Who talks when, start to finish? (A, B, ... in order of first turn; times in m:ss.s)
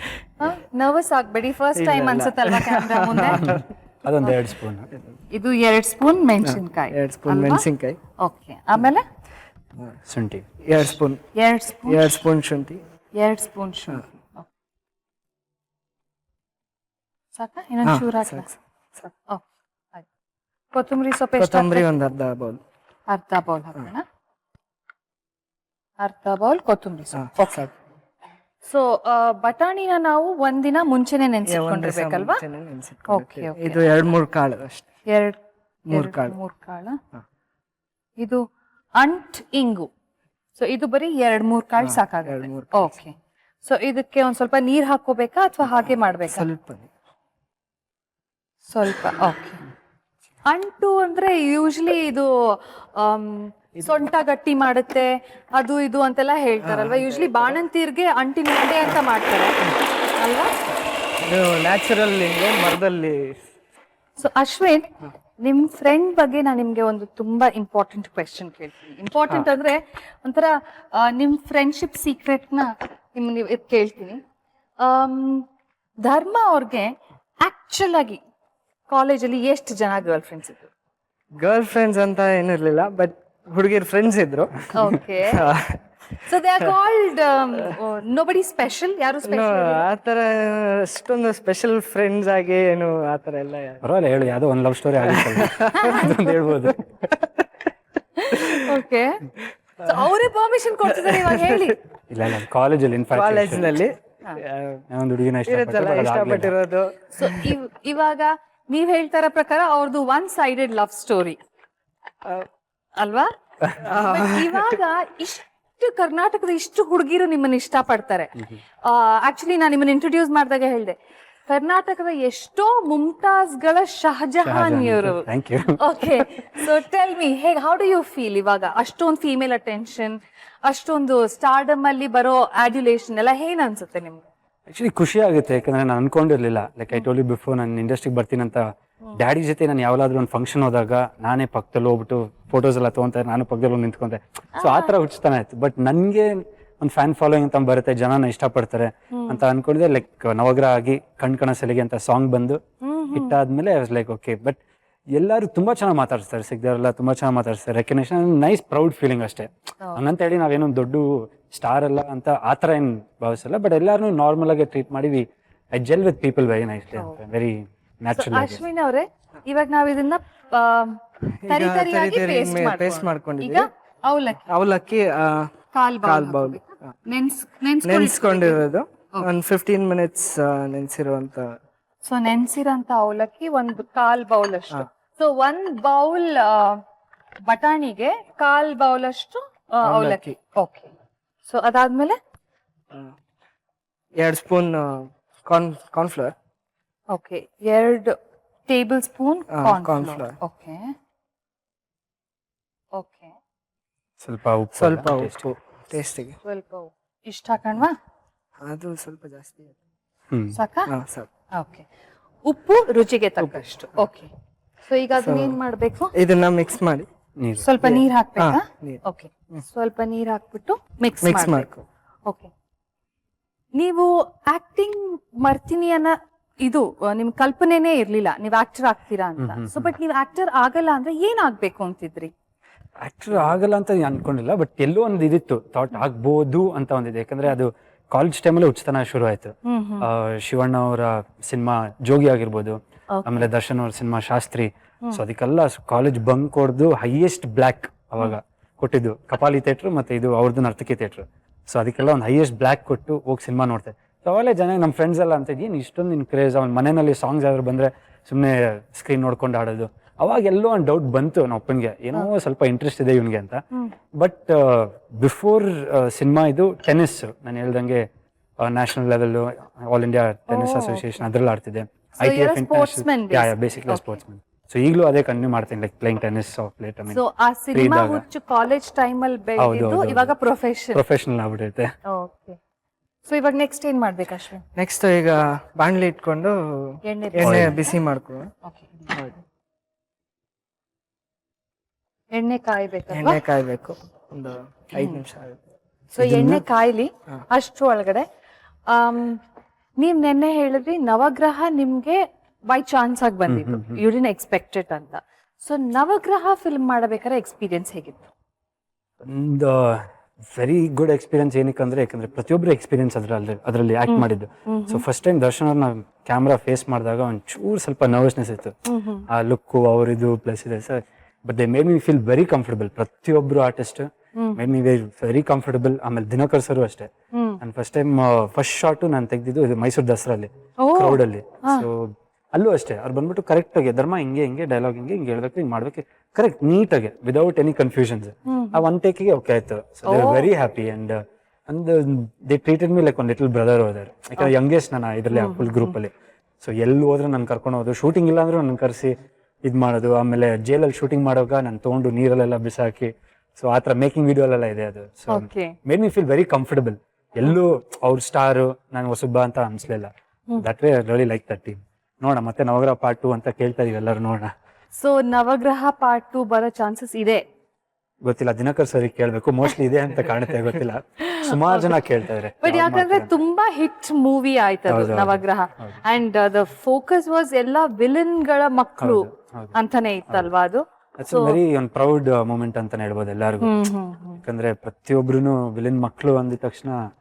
0:00.4-0:03.5 A
0:01.7-0:03.6 B
0:03.4-0:04.9 C
0:05.3-0:07.6 A
0:06.4-0:08.0 B
0:08.2-0:09.0 A
0:10.0-0:10.4 C
0:10.6-0:11.2 B
0:11.3-0:12.1 A
0:11.8-0:12.8 B
0:13.1-0:14.4 A
0:17.3-0:18.5 A
0:17.8-0:18.5 B
0:19.0-0:19.4 A
0:20.7-0:21.8 A
0:21.4-0:22.6 B
0:23.1-0:24.0 A
0:26.0-0:27.6 A
0:27.2-0:27.7 B
0:28.6-0:32.4 A
0:31.4-0:34.8 B
0:33.1-0:33.8 A
0:35.0-0:35.4 A
0:35.9-0:36.4 B
0:35.9-0:37.0 A
0:39.0-0:39.9 A
0:40.6-0:46.5 A
0:41.8-0:42.9 B
0:46.3-0:46.9 B
0:48.7-0:49.6 A
0:50.5-1:00.5 A
0:56.6-0:57.6 B
1:01.2-1:03.4 B
1:04.2-1:14.2 A
1:14.8-1:15.5 A
1:16.0-1:18.2 A
1:18.9-1:20.7 A
1:21.4-1:25.8 B
1:24.7-1:25.4 A
1:26.2-1:29.8 A
1:29.2-1:33.8 B
1:33.8-1:36.8 C
1:35.1-1:37.4 B
1:35.7-1:36.2 A
1:38.2-1:39.2 A
1:38.3-1:38.6 B
1:39.8-1:40.1 B
1:39.8-1:41.8 A
1:40.9-1:41.7 B
1:42.1-1:43.8 C
1:43.1-1:44.8 B
1:44.9-1:46.6 C
1:45.4-1:47.5 B
1:47.1-1:51.4 A
1:53.0-2:14.2 A
1:53.8-1:54.6 B
2:04.4-2:06.2 C
2:14.7-2:18.6 C
2:19.1-2:32.6 C
2:24.6-2:24.9 A
2:29.1-2:29.4 A
2:32.8-2:33.3 A
2:33.1-2:34.6 C
2:35.1-2:48.6 C
2:48.2-2:54.4 A
2:51.4-2:53.7 B
2:54.4-2:56.6 B
2:55.7-2:59.3 A
2:57.8-3:01.6 B
3:02.0-3:06.8 A
3:07.4-3:10.9 A
3:09.8-3:10.3 B
3:11.4-3:12.2 A
3:14.2-3:16.3 B
3:17.1-3:18.2 A
3:18.7-3:20.9 A
3:19.5-3:20.4 B
3:22.9-3:23.3 A
3:24.2-3:25.4 C
3:24.7-3:26.4 B
3:26.4-3:27.9 A
3:28.6-3:29.7 B
3:30.3-3:30.6 C
3:30.5-3:30.9 A
3:30.9-3:31.3 B
3:31.5-3:31.8 A
3:32.4-3:34.3 A
3:34.9-3:36.1 A
3:35.2-3:35.6 B
3:36.1-3:37.1 B
3:37.4-3:37.6 C
3:37.6-3:41.7 A
3:37.8-3:39.0 B
3:41.2-3:41.8 B
3:42.2-3:42.5 A
3:43.7-3:52.3 A
3:49.4-3:49.9 C
3:53.0-4:23.6 C
3:59.6-4:00.1 A
4:03.1-4:03.5 A
4:24.1-4:28.0 C
4:28.6-4:37.2 C
4:30.5-4:31.0 A
4:32.2-4:34.2 A
4:37.1-4:41.0 A
4:37.7-4:38.2 C
4:39.6-4:40.3 C
4:40.9-4:41.9 C
4:42.0-4:42.6 A
4:43.2-4:44.6 A
4:44.8-4:48.5 B
4:47.0-4:47.9 A
4:47.4-4:47.8 C
4:48.6-4:49.1 A
4:52.3-4:53.4 A
4:53.1-4:55.6 B
4:54.9-4:55.2 A
4:56.1-4:58.2 A
4:56.2-4:56.6 C
4:58.9-4:59.4 A
5:00.0-5:08.3 A
5:03.5-5:04.0 C
5:09.2-5:18.7 C
5:14.1-5:15.0 A
5:18.9-5:19.3 A
5:19.3-5:27.1 C
5:24.3-5:24.6 A
5:27.3-5:27.6 A
5:27.6-6:04.5 C
5:30.8-5:31.9 A
5:38.5-5:38.8 A
5:40.0-5:40.5 A
5:45.3-5:46.0 A
5:55.3-5:55.7 A
6:04.9-6:07.4 A
6:08.2-6:13.3 C
6:11.2-6:12.0 A
6:12.6-6:21.6 A
6:14.9-6:16.0 C
6:19.0-6:19.7 C
6:21.2-6:23.7 C
6:23.6-6:24.4 A
6:24.4-6:27.0 C